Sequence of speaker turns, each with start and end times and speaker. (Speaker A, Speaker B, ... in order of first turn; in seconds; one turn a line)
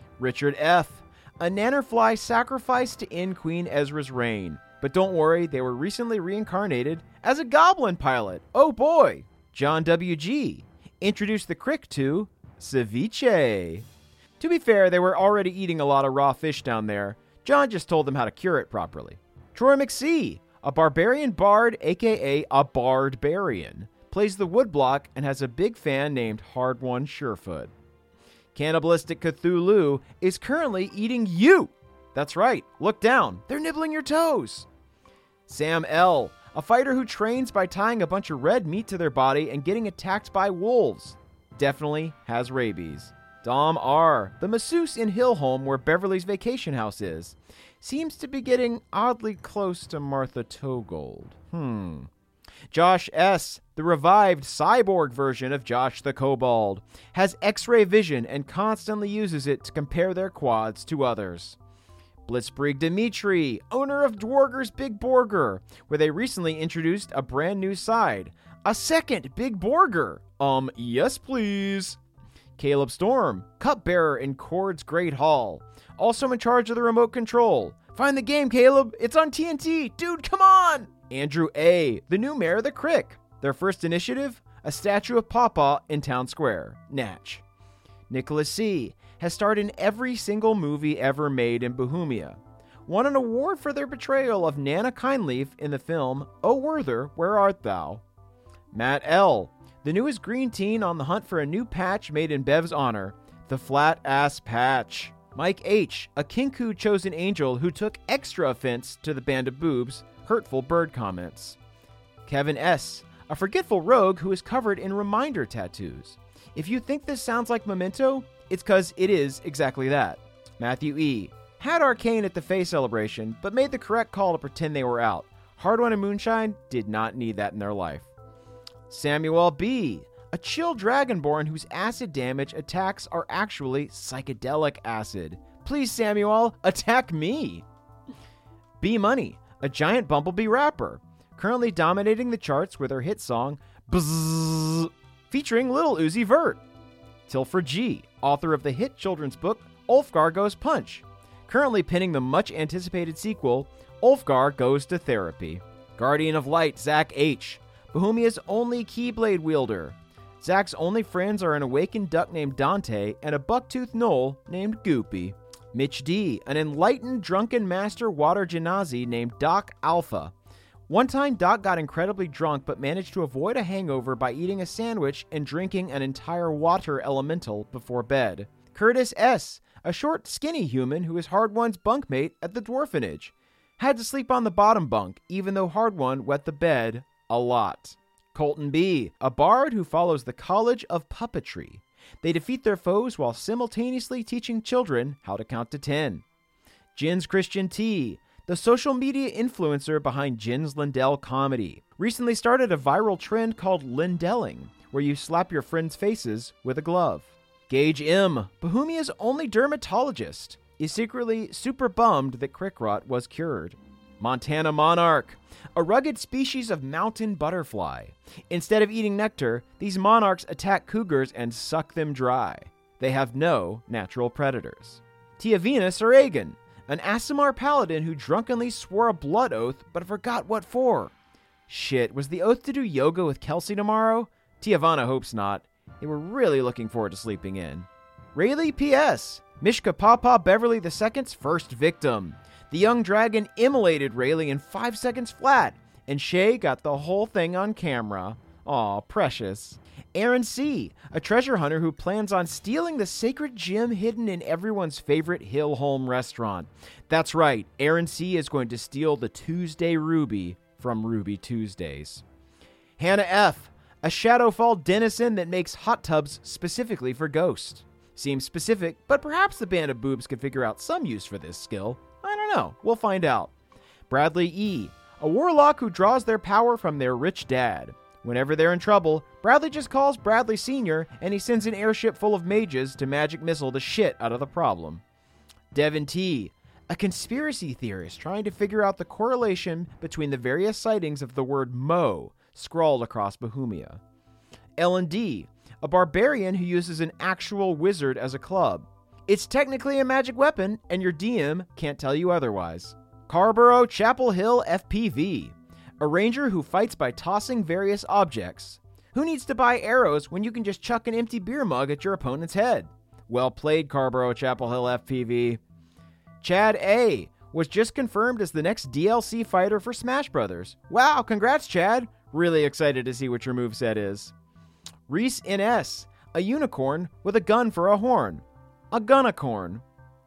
Speaker A: 0.2-13.9
Speaker A: 14.4-27.7
Speaker A: 28.6-34.7
Speaker A: 35.5-52.1
Speaker A: 52.7-61.6
Speaker A: 62.3-72.0
Speaker A: 72.6-87.4
Speaker A: 88.1-98.0
Speaker A: 98.7-111.6
Speaker A: 112.2-128.1
Speaker A: 128.9-137.7
Speaker A: 138.8-146.6
Speaker A: 147.3-170.3
Speaker A: 170.9-196.2
Speaker A: 196.9-231.1
Speaker A: 231.7-262.2
Speaker A: 263.0-273.5
Speaker A: 274.1-285.0
Speaker A: 285.7-294.0
Speaker A: 294.8-315.6
Speaker A: 316.4-324.3
Speaker A: 325.1-329.8